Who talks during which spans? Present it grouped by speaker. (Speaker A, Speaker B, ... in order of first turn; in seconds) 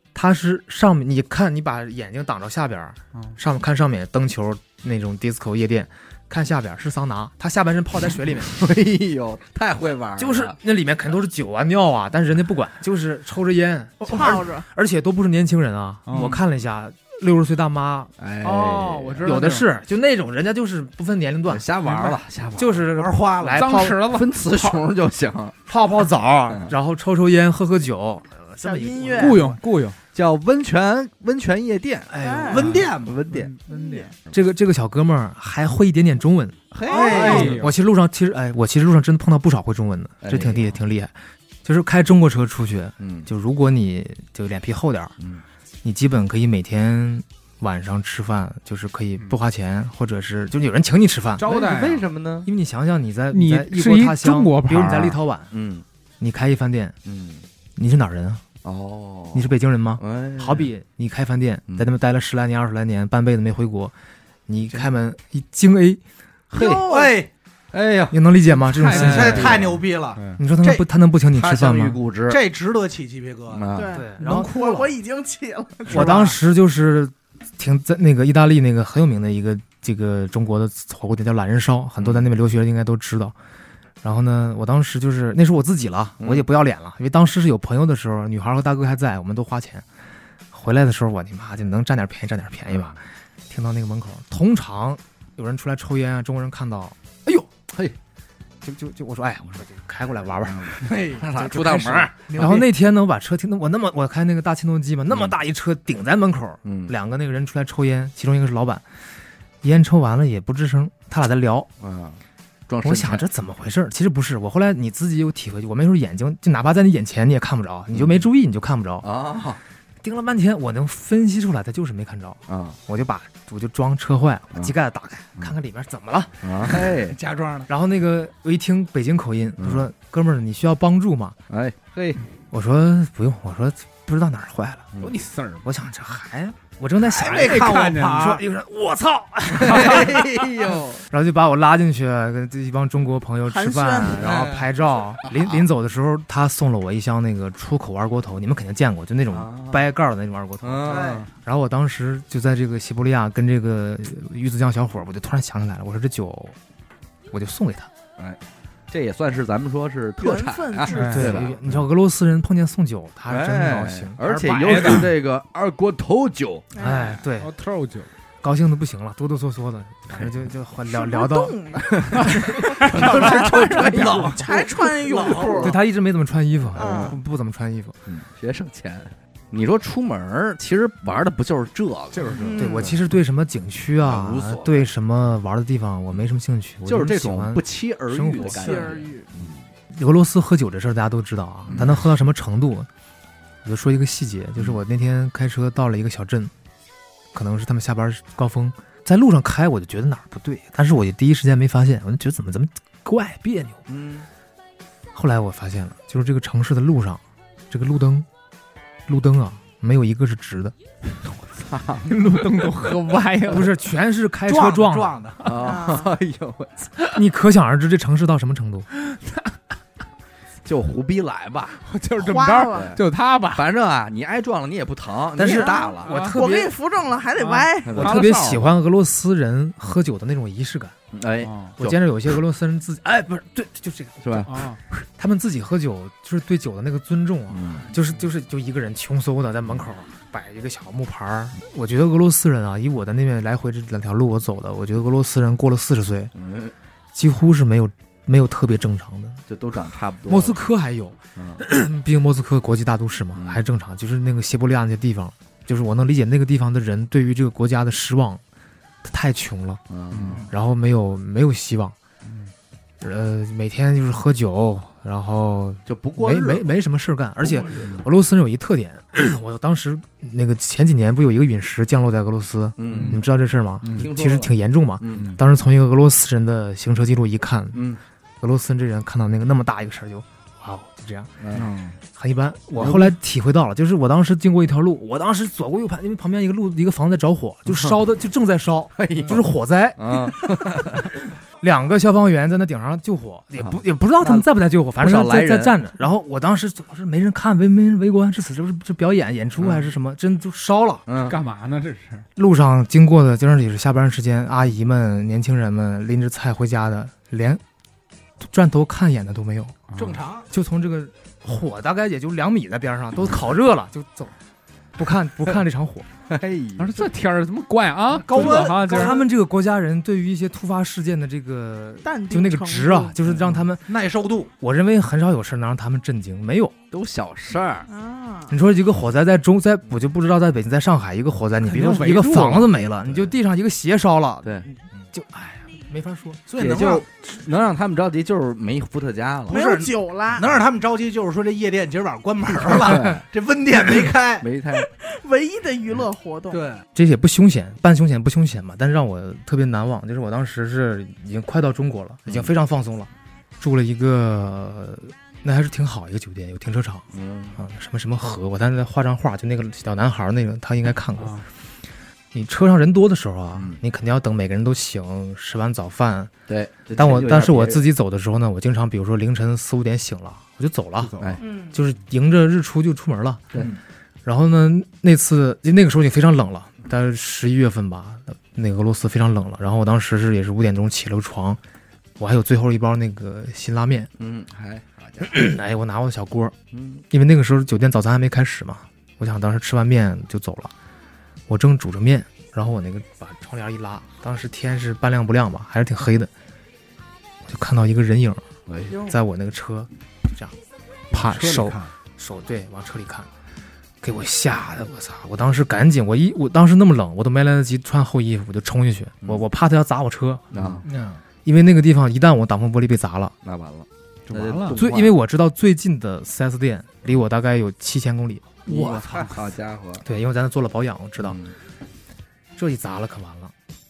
Speaker A: 0.1-8.6, 10.2-18.1, 19.2-22.1, 22.6-24.0, 25.7-29.6, 32.1-32.7, 34.3-41.1, 41.6-45.1, 45.8-51.5, 52.5-55.5, 56.2-56.9, 57.8-58.4, 59.3-63.9, 64.5-66.0, 68.1-69.8, 70.4-72.0, 73.9-74.9, 75.9-83.3, 84.0-89.8, 90.5-97.5, 98.6-108.8, 109.6-111.7, 112.8-119.0, 120.0-126.9, 127.7-131.4, 132.5-134.9, 135.6-156.6, 157.3-157.9, 161.1-165.1, 166.8-167.5, 168.4-171.6, 173.9-174.3, 175.6-178.0, 182.5-188.8, 189.9-192.9, 193.6-196.5, 197.3-203.8, 205.1-208.3, 209.1-210.7, 213.5-215.2, 217.1-218.9, 225.3-226.8, 227.9-230.9, 231.8-246.3, 247.1-249.4, 250.2-258.4, 259.0-261.9, 263.0-281.6, 282.1-301.0, 302.4-307.6, 308.4-309.9, 310.5-314.3, 314.9-316.1, 318.3-323.9, 324.6-326.7, 328.5-336.8, 346.9-357.0, 357.6-361.4, 362.3-366.3, 366.9-373.6, 374.2-381.6, 382.2-384.1, 385.2-386.5, 387.1-390.7, 391.5-396.3, 397.4-400.5, 401.1-403.3, 404.0-413.3, 414.7-418.9, 420.0-421.4, 422.6-423.5
Speaker B: 8.3-10.6, 18.2-19.4, 21.5-22.9, 24.0-25.6, 26.5-26.7, 30.1-32.1, 32.7-33.5, 36.7-37.6, 40.2-40.8, 43.0-43.3, 51.4-52.5, 55.5-55.8, 57.0-57.4, 58.6-60.7, 66.5-67.1, 67.7-68.2, 71.3-72.4, 73.5-74.0, 82.0-82.3, 86.2-86.4, 92.7-93.0, 100.5-102.6, 106.6-106.9, 111.8-113.3, 117.9-118.2, 119.0-119.6, 122.5-122.8, 126.4-127.2, 129.6-129.9, 131.5-132.2, 139.5-141.0, 149.3-149.9, 150.6-151.3, 158.9-161.8, 163.3-166.7, 171.8-174.6, 175.1-175.6, 176.7-177.2, 178.1-182.9, 184.0-184.9, 186.8-189.6, 191.7-192.0, 203.9-204.3, 211.5-212.1, 215.4-216.9, 220.6-221.8, 222.7-223.0, 223.5-226.1, 227.8-228.2, 231.1-232.0, 234.2-234.5, 237.5-237.9, 246.3-246.7, 249.5-250.6, 251.3-251.6, 253.3-253.6, 259.9-260.5, 265.9-266.7, 267.7-268.0, 272.8-273.2, 273.9-275.4, 277.7-278.0, 281.4-281.8, 288.9-291.1, 293.6-295.8, 301.1-301.4, 316.3-317.1, 326.9-327.9, 333.1-333.3, 334.4-334.7, 336.6-339.6, 342.6-343.2, 344.4-344.9, 352.2-352.5, 357.1-357.6, 366.5-367.9, 384.2-385.5, 386.7-387.0, 398.7-399.1, 410.5-410.8, 413.4-415.2, 418.6-420.0, 421.2-421.5
Speaker C: 14.1-14.7, 28.6-29.4, 32.2-32.7, 33.7-34.1, 36.9-37.4, 66.5-67.1, 73.7-76.3, 143.5-144.2, 160.2-161.5, 166.7-167.1, 170.9-175.7, 176.8-177.2, 182.4-182.9, 188.4-189.3, 215.6-216.1, 222.2-222.9, 225.5-228.1, 322.0-323.2, 327.9-328.6, 339.5-340.6, 344.9-346.7
Speaker D: 16.1-16.4, 18.4-19.7, 23.5-24.8, 29.1-30.0, 32.6-34.1, 37.0-37.7, 51.4-52.1, 53.3-55.2, 68.5-70.4, 135.0-135.7, 137.3-138.4, 160.9-161.3, 164.6-165.1, 167.2-168.1, 172.9-173.9, 182.1-182.8, 188.7-189.1, 212.0-213.7, 219.0-219.5, 221.8-223.7, 226.0-226.4, 227.3-228.7, 231.4-231.7, 234.5-234.8, 260.1-260.4, 262.2-262.5, 272.9-273.2, 273.8-274.1, 281.5-281.9, 282.8-283.1, 301.2-302.2, 309.9-310.2, 316.8-319.1, 331.7-332.7, 361.2-361.4, 371.0-371.4, 414.3-414.8
Speaker E: 22.9-23.9, 32.5-33.2, 36.9-37.6, 66.7-67.3, 68.9-70.8, 72.3-73.7, 74.2-74.8, 76.0-76.2, 100.8-101.2, 102.3-102.7, 127.0-127.7, 137.0-138.4, 144.2-144.6, 150.9-151.2, 173.7-175.8, 214.5-215.5, 309.9-310.5, 318.1-319.1, 323.9-324.5, 336.5-337.1, 339.5-344.4, 346.5-346.8, 401.1-401.8, 410.8-411.1